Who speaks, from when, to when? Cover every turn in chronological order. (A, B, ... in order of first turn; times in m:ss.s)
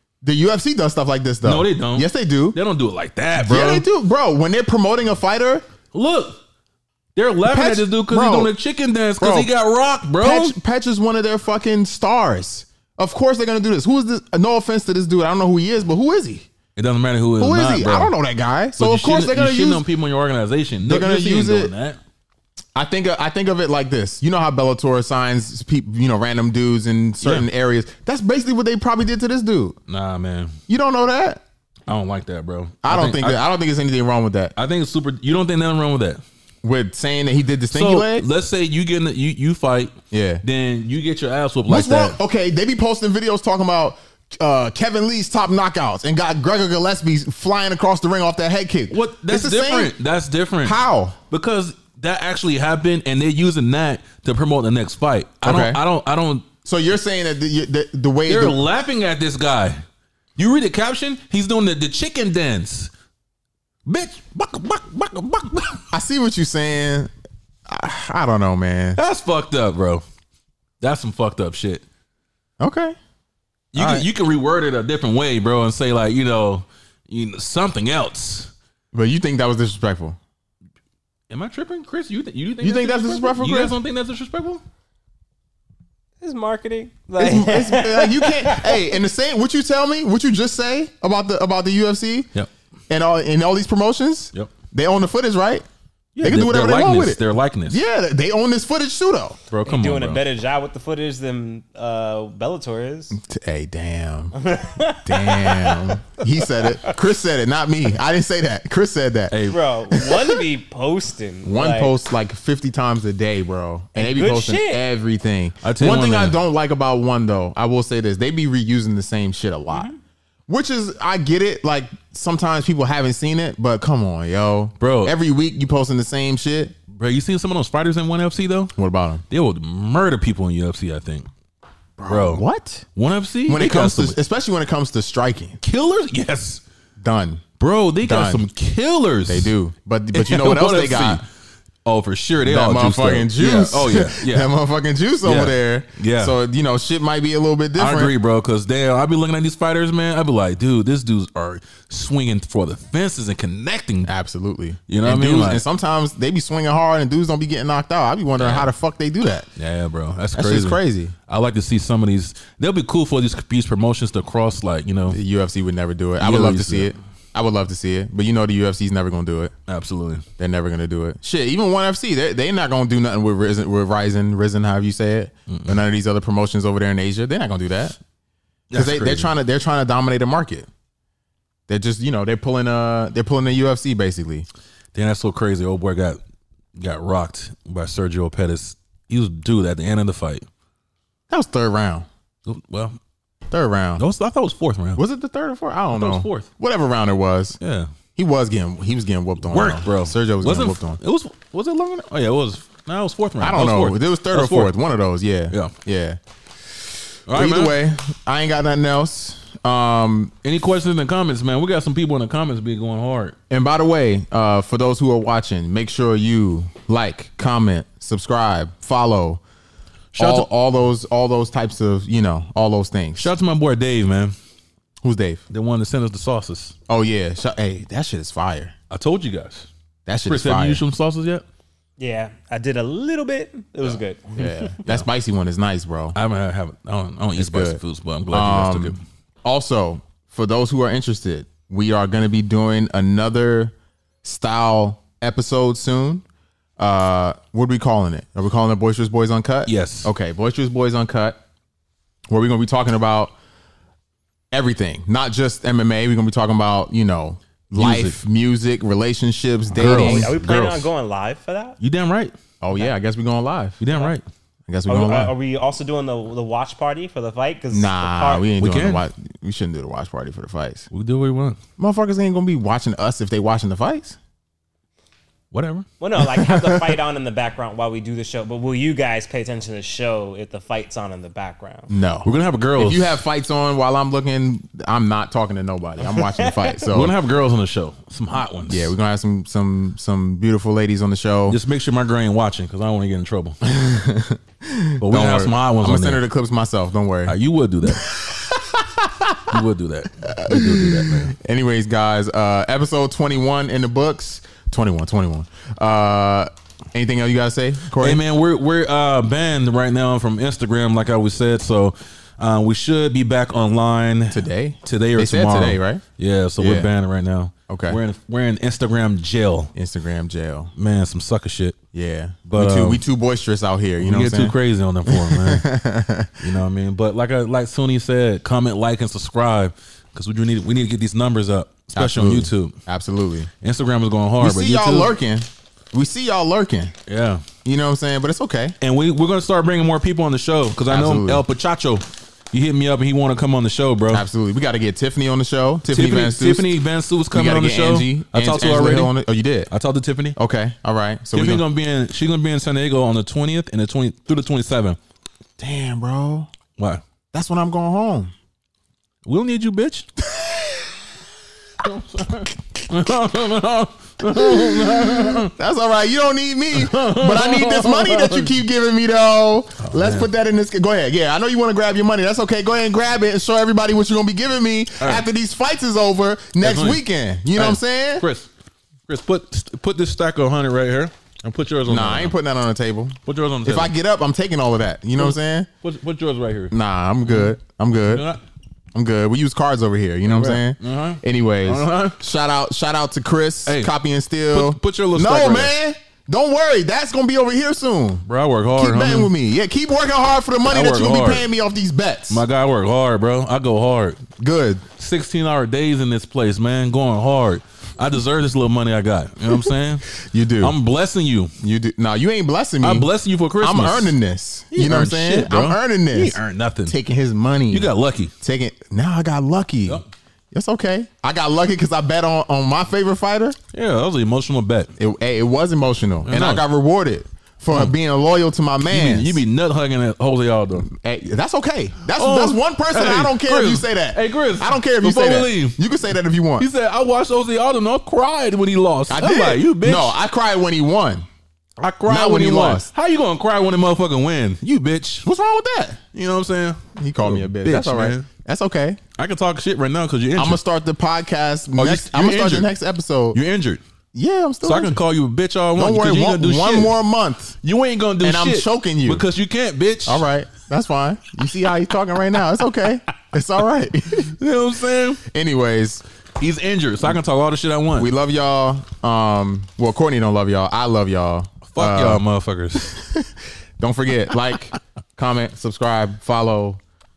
0:00.2-0:02.6 A
0:01.4-0:03.8 B
0:03.4-0:05.6 A
0:05.9-0:06.4 B
0:07.2-0:10.6 B
0:07.4-0:08.5 A
0:09.2-0:09.5 A
0:10.2-0:16.5 A
0:16.8-0:18.1 B
0:17.4-0:19.8 A
0:18.8-0:22.0 B
0:20.8-0:21.7 A
0:22.7-0:29.8 A
0:27.2-0:27.5 B
0:29.9-0:30.6 B
0:30.7-0:31.4 A
0:31.9-0:33.4 B
0:32.8-0:34.5 A
0:34.6-0:36.2 B
0:36.6-0:38.3 A
0:37.7-0:42.2 B
0:40.1-0:40.4 A
0:41.7-0:49.9 A
0:48.9-0:50.8 B
0:50.6-0:51.2 A
0:51.3-0:56.5 B
0:55.4-0:55.8 A
0:56.6-0:58.6 A
0:58.3-0:59.8 B
1:00.4-1:02.9 B
1:03.8-1:05.8 B
1:05.9-1:07.1 A
1:07.6-1:09.0 A
1:09.0-1:10.0 B
1:10.8-1:11.8 B
1:12.6-1:13.0 A
1:13.7-1:18.5 B
1:13.7-1:14.0 A
1:18.9-1:20.2 A
1:21.3-1:24.6 B
1:22.6-1:23.7 A
1:26.2-1:28.9 C
1:27.2-1:32.3 A
1:32.9-1:35.6 A
1:36.2-1:37.8 B
1:36.2-1:39.4 A
1:39.5-1:40.2 B
1:39.6-1:43.2 C
1:43.1-1:44.3 A
1:44.4-1:46.9 C
1:45.0-1:50.4 A
1:49.3-1:49.6 B
1:49.5-1:51.9 C
1:51.4-1:59.9 A
1:54.0-1:54.8 C
1:55.6-1:56.4 B
1:59.7-2:00.0 C
2:00.5-2:06.7 A
2:04.8-2:05.1 B
2:06.9-2:08.7 B
2:08.8-2:09.2 A
2:09.3-2:11.3 B
2:12.0-2:12.8 A
2:12.1-2:12.4 B
2:12.9-2:14.2 B
2:13.5-2:15.6 A
2:15.6-2:16.6 B
2:17.0-2:17.4 A
2:17.6-2:19.5 B
2:18.0-2:18.4 A
2:19.3-2:21.2 A
2:20.1-2:21.2 B
2:21.8-2:24.5 B
2:22.4-2:28.1 A
2:25.2-2:26.4 B
2:27.8-2:34.1 B
2:34.0-2:39.5 A
2:34.9-2:35.6 B
2:39.6-2:45.2 B
2:40.4-2:41.1 A
2:45.1-2:49.5 A
2:46.2-2:46.9 B
2:49.7-2:50.2 B
2:50.4-2:58.0 A
2:55.5-2:55.8 B
2:58.7-2:59.3 B
2:58.7-3:00.7 A
3:01.7-3:04.4 A
3:04.9-3:06.2 B
3:06.8-3:10.5 B
3:11.3-3:12.1 A
3:12.4-3:13.0 B
3:13.5-3:14.0 A
3:14.0-3:15.0 B
3:15.0-3:17.6 A
3:15.9-3:16.5 B
3:17.6-3:17.9 B
3:18.2-3:21.0 A
3:19.4-3:24.7 B
3:23.4-3:26.2 A
3:27.3-3:27.8 B
3:27.3-3:30.3 A
3:30.4-3:33.4 B
3:33.5-3:39.4 A
3:40.1-3:40.5 B
3:40.2-3:43.3 A
3:43.2-3:44.3 B
3:45.0-3:45.4 A
3:45.5-3:46.7 B
3:46.9-3:48.7 A
3:48.9-3:49.7 B
3:50.0-3:50.8 A
3:50.2-3:51.4 B
3:52.0-3:54.8 C
3:54.3-3:56.2 A
3:56.1-3:59.0 B
3:57.4-3:57.8 A
3:58.3-4:06.2 A
4:06.8-4:11.4 A
4:09.6-4:10.1 B
4:12.3-4:13.3 A
4:14.5-4:20.3 A
4:17.7-4:18.2 B
4:19.7-4:20.9 B
4:19.7-4:21.8 C
4:21.8-4:22.3 B
4:22.6-4:23.8 A
4:23.8-4:24.2 B
4:24.7-4:25.3 A
4:24.9-4:28.5 C
4:27.7-4:30.9 A
4:28.6-4:29.0 B
4:30.9-4:31.6 B
4:31.8-4:34.2 A
4:35.5-4:35.8 B
4:36.0-4:41.9 C
4:36.2-4:37.0 A
4:41.9-4:47.1 A
4:42.2-4:43.2 B
4:46.0-4:46.8 C
4:46.9-4:48.9 B
4:48.7-4:51.6 A
4:51.5-4:53.6 B
4:53.6-4:59.6 A
4:55.0-4:56.2 B
4:57.2-4:58.1 B
4:59.5-5:01.3 B
5:00.2-5:08.2 A
5:08.0-5:19.7 B
5:14.3-5:16.0 A
5:16.6-5:16.9 A
5:17.7-5:18.0 A
5:19.7-5:20.7 A
5:20.8-5:21.8 B
5:21.9-5:26.4 A
5:22.5-5:23.0 B
5:24.0-5:25.6 B
5:26.4-5:32.8 B
5:31.9-5:33.5 A
5:33.6-5:35.1 B
5:34.4-5:36.9 A
5:37.1-5:37.4 B
5:37.6-5:38.7 A
5:38.8-5:44.2 B
5:40.9-5:41.4 A
5:44.1-5:46.7 A
5:45.9-5:49.1 B
5:47.3-5:49.7 A
5:49.7-5:50.4 B
5:50.4-5:51.6 A
5:51.3-5:55.0 B
5:55.6-5:56.5 A
5:56.8-5:57.0 B
5:57.3-5:58.3 A
5:59.2-6:00.1 B
6:00.2-6:00.9 A
6:01.8-6:05.5 B
6:04.2-6:18.2 A
6:06.7-6:08.5 B
6:09.8-6:10.3 B
6:15.0-6:15.2 B
6:16.6-6:17.0 B
6:17.5-6:18.5 B
6:19.1-6:22.4 B
6:21.9-6:25.7 A
6:23.2-6:23.9 B
6:25.2-6:26.7 B
6:26.7-6:28.2 A
6:27.2-6:27.5 B
6:28.0-6:28.4 B
6:28.9-6:42.4 A
6:30.2-6:32.2 B
6:33.6-6:33.9 B
6:34.5-6:35.7 B
6:38.3-6:39.3 B
6:40.6-6:41.5 B
6:42.3-6:44.2 B
6:44.4-6:44.8 A
6:45.0-6:51.5 B
6:50.2-6:50.7 A
6:51.6-6:53.1 A
6:52.8-6:54.2 B
6:53.6-7:03.6 A
6:54.7-6:56.9 B
6:57.7-6:58.3 B
7:03.7-7:04.9 B
7:05.0-7:09.4 A
7:06.2-7:06.6 B
7:08.9-7:10.9 B
7:10.9-7:16.7 A
7:12.1-7:15.8 B
7:16.6-7:20.2 B
7:19.1-7:21.2 A
7:21.8-7:25.2 B
7:22.1-7:22.9 A
7:25.2-7:26.0 A
7:26.1-7:28.3 B
7:27.0-7:29.0 A
7:29.2-7:30.6 B
7:30.4-7:33.4 A
7:31.7-7:32.7 B
7:33.3-7:33.8 B
7:34.1-7:35.0 A
7:34.6-7:36.9 B
7:35.8-7:37.6 A
7:37.6-7:40.2 B
7:38.2-7:39.2 A
7:40.0-7:44.3 A
7:44.2-7:45.2 B
7:45.2-7:46.0 A
7:46.4-7:48.1 B
7:48.0-7:52.2 A
7:51.7-7:53.0 B
7:52.9-7:56.8 A